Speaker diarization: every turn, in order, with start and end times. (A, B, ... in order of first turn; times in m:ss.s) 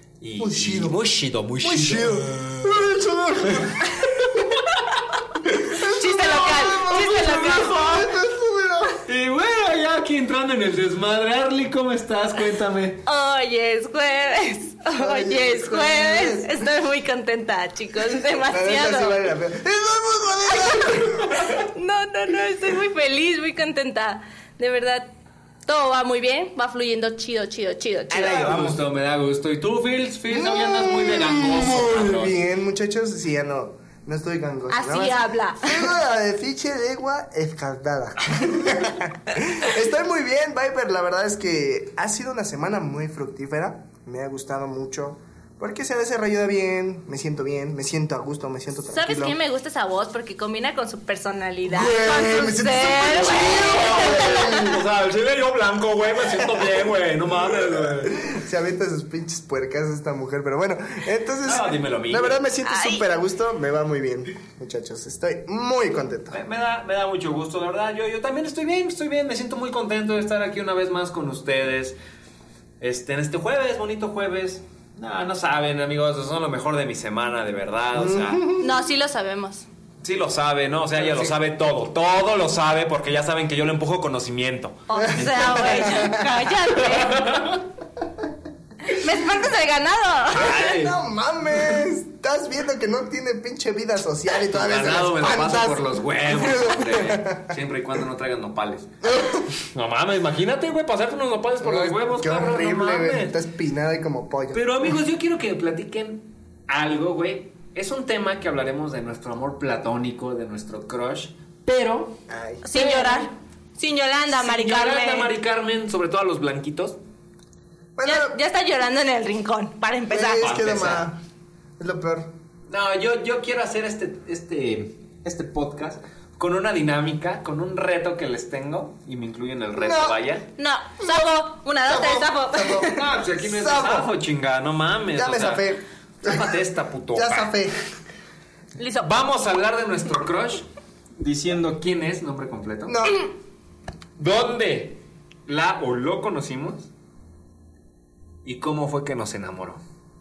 0:00.2-0:02.8 A
0:00.4-0:01.0 B
0:01.6-0:04.1 B
0:03.5-0:04.9 A
0:05.6-0:09.0 B
0:05.8-0:08.1 C
0:09.0-0:13.0 A
0:13.0-0:19.3 C
0:15.0-0:16.6 B
0:18.5-0:21.5 B
0:20.5-0:25.1 C
0:25.7-0:28.6 C
0:28.1-0:32.4 A
0:28.1-0:28.8 B
0:30.3-0:49.4 B
0:34.7-0:35.9 C
0:48.9-0:54.7 C
0:51.7-0:54.8 B
0:53.1-0:58.2 A
0:56.4-0:56.6 B
0:57.5-1:06.4 B
1:01.4-1:02.4 A
1:02.6-1:03.0 C
1:06.3-1:12.0 A
1:12.8-1:18.5 A
1:18.0-1:18.7 B
1:18.6-1:19.7 C
1:20.0-1:26.1 A
1:21.0-1:21.3 B
1:24.9-1:27.4 C
1:25.0-1:26.5 B
1:26.8-1:27.6 A
1:28.9-1:30.7 C
1:30.3-1:31.0 A
1:30.4-1:37.5 B
1:34.4-1:39.0 A
1:39.0-1:39.5 B
1:39.6-1:43.4 A
1:41.6-1:44.6 B
1:44.5-1:52.2 A
1:52.3-1:52.6 B
1:52.6-1:55.3 C
1:52.8-1:53.3 A
1:54.3-1:57.0 A
1:58.0-1:58.3 B
1:58.0-2:00.4 C
2:00.1-2:01.2 B
2:00.4-2:01.1 A
2:01.8-2:02.3 B
2:02.7-2:10.5 A
2:09.8-2:10.2 B
2:10.6-2:13.0 C
2:11.9-2:14.1 B
2:12.8-2:17.5 A
2:15.1-2:16.6 B
2:17.1-2:17.8 B
2:18.8-2:19.1 C
2:19.0-2:20.7 A
2:21.2-2:23.1 A
2:22.9-2:23.3 B
2:24.2-2:26.9 A
2:28.4-2:29.8 A